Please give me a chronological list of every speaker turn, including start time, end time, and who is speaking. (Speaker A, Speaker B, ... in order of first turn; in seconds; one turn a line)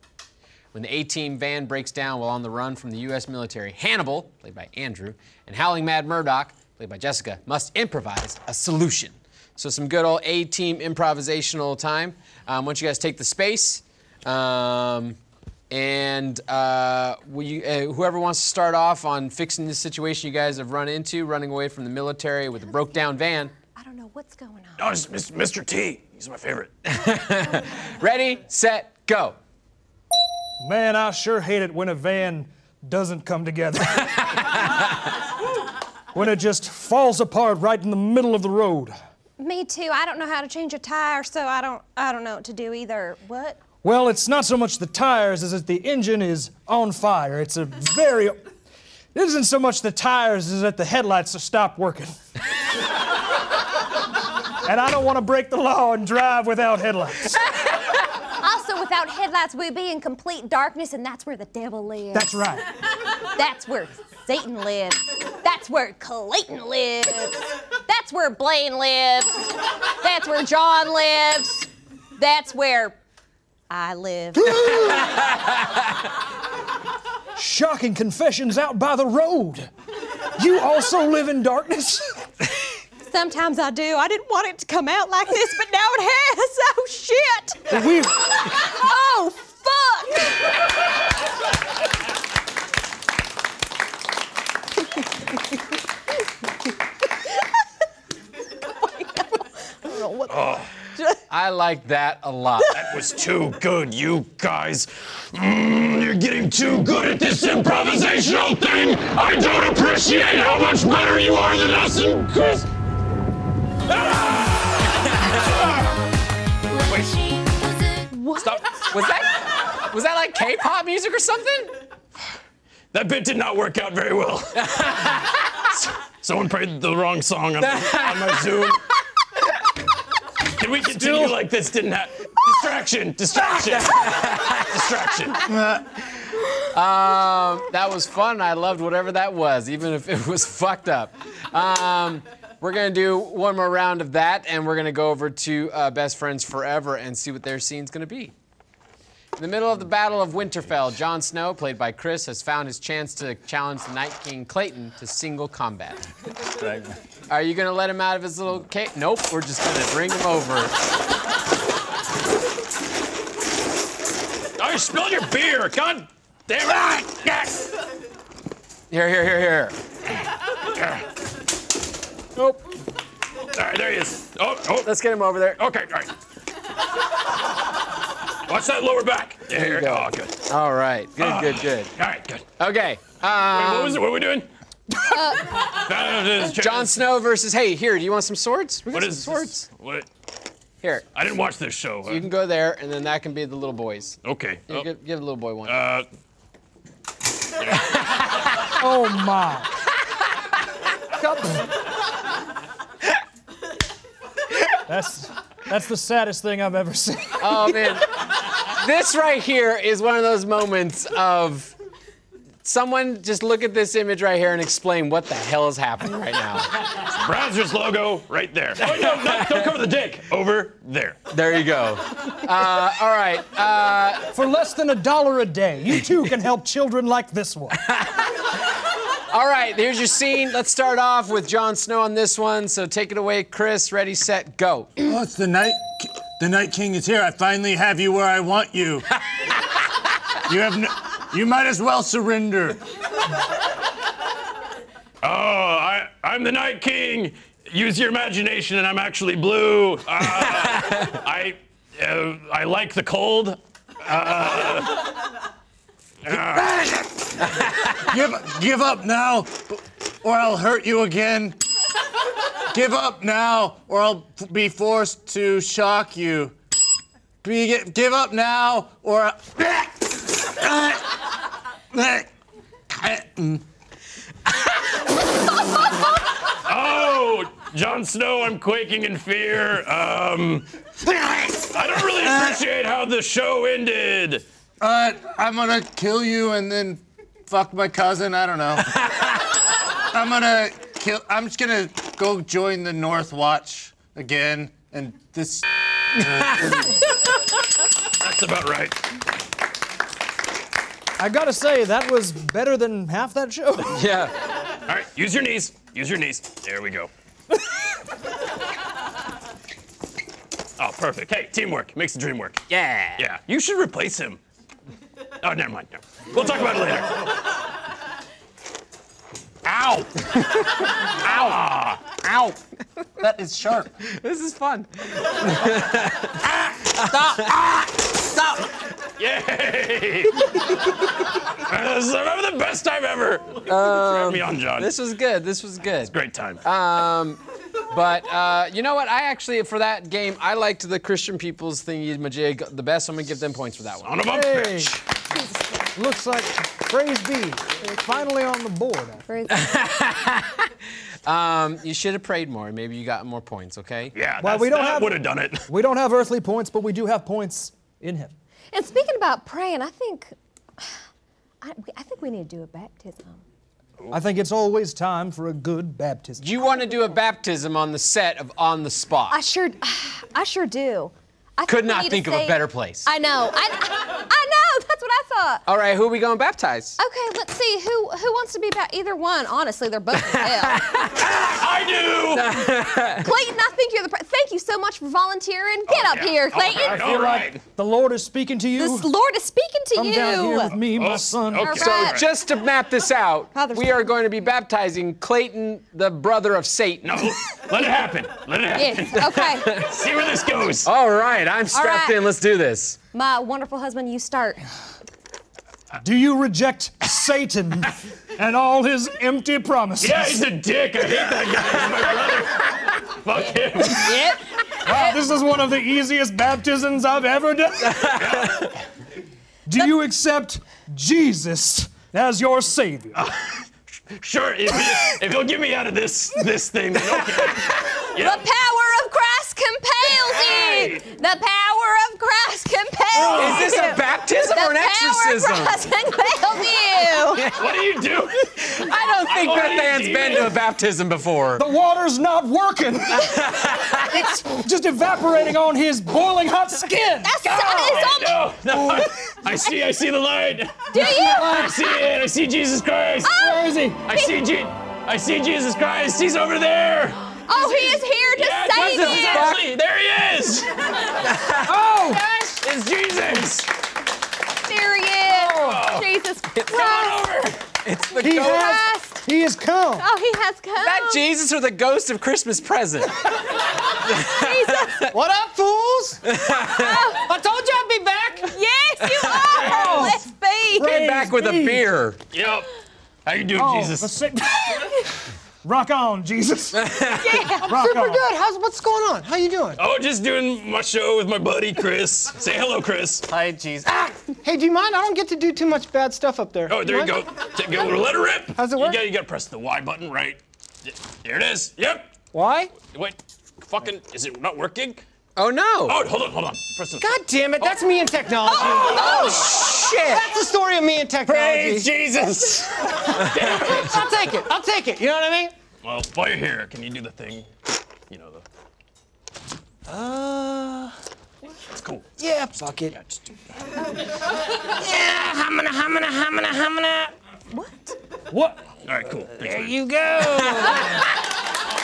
Speaker A: 0.7-15.2
Speaker A: 15.7-23.5
Speaker B: 23.6-24.8
Speaker C: 24.8-26.7
Speaker A: 26.9-29.4
Speaker D: 30.6-34.7
Speaker D: 36.1-38.9
Speaker B: 39.4-43.6
Speaker D: 43.8-48.4
Speaker D: 49.1-52.1
Speaker D: 54.6-57.5
Speaker B: 58.4-62.5
Speaker D: 62.1-62.7
Speaker B: 63.3-73.0
Speaker B: 73.7-75.0
Speaker D: 74.4-75.1
Speaker D: 77.3-79.7
Speaker D: 80.4-82.2
Speaker B: 83.1-90.5
Speaker D: 87.7-88.4
Speaker B: 98.8-101.2
Speaker C: 100.3-100.7
Speaker A: 101.3-102.7
Speaker C: 102.7-112.7
Speaker C: 113.9-116.0
Speaker C: 116.8-117.3
Speaker B: 118.1-118.6
Speaker C: 118.4-118.7
Speaker A: 118.9-121.7
Speaker C: 122.9-124.8
Speaker A: 124.6-125.3
Speaker C: 125.8-128.8
Speaker A: 127.6-128.7
Speaker C: 130.5-135.5
Speaker A: 133.7-134.7
Speaker E: 135.5-135.8
Speaker A: 136.7-148.3
Speaker A: 149.3-156.0
Speaker E: 156.6-156.9
Speaker A: 157.3-160.7
Speaker C: 164.6-167.7
Speaker A: 168.9-169.8
Speaker C: 170.7-171.0
Speaker C: 173.5-174.9
Speaker A: 174.8-175.6
Speaker C: 175.6-176.1
Speaker C: 178.4-180.4
Speaker A: 179.5-181.9
Speaker C: 181.2-182.4
Speaker A: 182.6-184.0
Speaker C: 183.4-184.5
Speaker B: 185.0-185.7
Speaker C: 185.1-187.0
Speaker A: 186.5-189.7
Speaker C: 188.9-190.1
Speaker C: 191.1-192.3
Speaker A: 192.1-194.2
Speaker C: 194.2-194.9
Speaker A: 194.7-195.8
Speaker C: 195.6-196.1
Speaker D: 198.7-199.7
Speaker D: 201.2-201.7
Speaker D: 204.8-207.9
Speaker A: 207.4-211.7
Speaker A: 212.6-216.7
Speaker C: 216.9-221.2
Speaker A: 218.8-219.6
Speaker A: 221.3-224.3
Speaker D: 224.3-227.8
Speaker A: 227.8-228.4
Speaker A: 229.3-234.9
Speaker E: 235.0-239.1
Speaker E: 240.4-242.8
Speaker C: 245.2-255.1
Speaker C: 256.2-256.8
Speaker E: 256.3-261.6
Speaker E: 262.7-266.6
Speaker E: 267.4-271.2
Speaker E: 271.9-272.3
Speaker E: 272.9-273.6
Speaker C: 276.6-280.6
Speaker E: 281.1-282.6
Speaker C: 281.7-284.4
Speaker E: 284.8-296.7
Speaker C: 298.2-299.0
Speaker D: 301.2-304.0
Speaker A: 303.9-304.3
Speaker C: 304.7-307.1
Speaker C: 310.8-312.6
Speaker A: 312.7-313.2
Speaker C: 313.2-314.4
Speaker C: 315.4-317.2
Speaker C: 319.7-322.2
Speaker E: 319.7-320.0
Speaker E: 322.3-322.6
Speaker E: 323.2-323.9
Speaker A: 324.0-326.3
Speaker E: 326.4-328.7
Speaker A: 327.2-327.4
Speaker C: 329.2-330.8
Speaker C: 331.4-334.9
Speaker A: 333.6-344.2
Speaker C: 336.0-336.6
Speaker C: 344.0-345.0
Speaker D: 344.3-345.0
Speaker B: 345.3-345.9
Speaker D: 345.9-349.2
Speaker B: 349.3-349.9
Speaker A: 349.5-350.7
Speaker A: 351.2-354.1
Speaker C: 354.1-355.7
Speaker D: 354.4-358.3
Speaker B: 358.7-360.9
Speaker B: 361.6-363.4
Speaker D: 364.1-366.4
Speaker A: 366.4-369.4
Speaker B: 369.3-375.6
Speaker A: 371.7-373.1
Speaker A: 375.6-377.0
Speaker B: 377.0-380.9
Speaker A: 380.3-381.6
Speaker C: 381.3-382.7
Speaker A: 382.3-383.3
Speaker B: 383.2-387.3
Speaker C: 385.9-387.6
Speaker D: 386.8-389.1
Speaker B: 388.8-390.7
Speaker D: 389.9-391.7
Speaker C: 390.9-392.2
Speaker B: 391.6-392.2
Speaker A: 391.6-397.4
Speaker B: 393.5-394.1
Speaker C: 397.0-400.9
Speaker B: 398.7-399.8
Speaker A: 399.4-399.9
Speaker A: 400.8-403.0
Speaker B: 401.7-402.2
Speaker B: 403.1-404.6
Speaker D: 406.0-410.4
Speaker C: 410.0-414.3
Speaker B: 413.9-415.1
Speaker D: 414.8-418.5
Speaker C: 418.1-418.7
Speaker D: 419.7-423.2
Speaker C: 423.2-428.4
Speaker B: 428.1-437.4
Speaker C: 430.1-431.0
Speaker C: 433.1-433.8
Speaker A: 433.3-435.9
Speaker A: 437.3-437.7
Speaker C: 437.5-440.6
Speaker A: 438.6-441.7
Speaker D: 441.6-448.1
Speaker A: 443.5-444.0
Speaker B: 447.2-448.4
Speaker C: 447.4-453.5
Speaker D: 448.8-449.1
Speaker B: 450.9-451.7
Speaker D: 451.1-451.7
Speaker B: 453.2-454.4
Speaker D: 453.4-454.0
Speaker C: 454.0-461.6
Speaker B: 457.4-459.5
Speaker A: 459.1-459.6
Speaker A: 461.4-461.6
Speaker D: 461.6-462.5
Speaker C: 462.1-463.7
Speaker B: 464.6-467.3
Speaker C: 465.4-466.1
Speaker C: 466.6-467.6
Speaker A: 467.8-468.8
Speaker D: 468.2-470.1
Speaker B: 468.2-469.2
Speaker B: 470.0-471.2
Speaker A: 470.8-473.3
Speaker A: 474.0-475.1
Speaker B: 474.2-475.1
Speaker F: 475.1-476.2
Speaker A: 476.2-477.0
Speaker B: 476.7-477.2
Speaker F: 477.2-478.6
Speaker B: 478.5-481.0
Speaker D: 479.6-480.2
Speaker D: 480.8-481.9
Speaker A: 480.8-482.2
Speaker C: 482.3-482.7
Speaker C: 483.2-484.2
Speaker D: 483.5-485.0
Speaker D: 485.6-487.0
Speaker A: 486.8-487.4
Speaker B: 487.1-487.7
Speaker F: 487.6-489.8
Speaker D: 487.6-488.2
Speaker C: 489.8-493.2
Speaker E: 493.3-494.1
Speaker F: 494.3-497.2
Speaker C: 496.7-502.1
Speaker F: 498.5-499.0
Speaker F: 502.3-502.8
Speaker C: 502.7-505.0
Speaker A: 505.4-506.0
Speaker C: 505.9-507.8
Speaker F: 507.0-511.9
Speaker C: 508.4-509.6
Speaker A: 508.9-510.2
Speaker E: 511.2-513.0
Speaker C: 513.2-514.0
Speaker F: 513.2-515.5
Speaker C: 515.8-517.5
Speaker C: 518.1-518.4
Speaker F: 519.9-520.9
Speaker C: 521.7-522.0
Speaker F: 522.2-523.0
Speaker C: 522.9-523.2
Speaker F: 524.8-527.1
Speaker B: 527.5-528.0
Speaker D: 528.3-528.7
Speaker C: 528.9-529.8
Speaker D: 529.3-531.0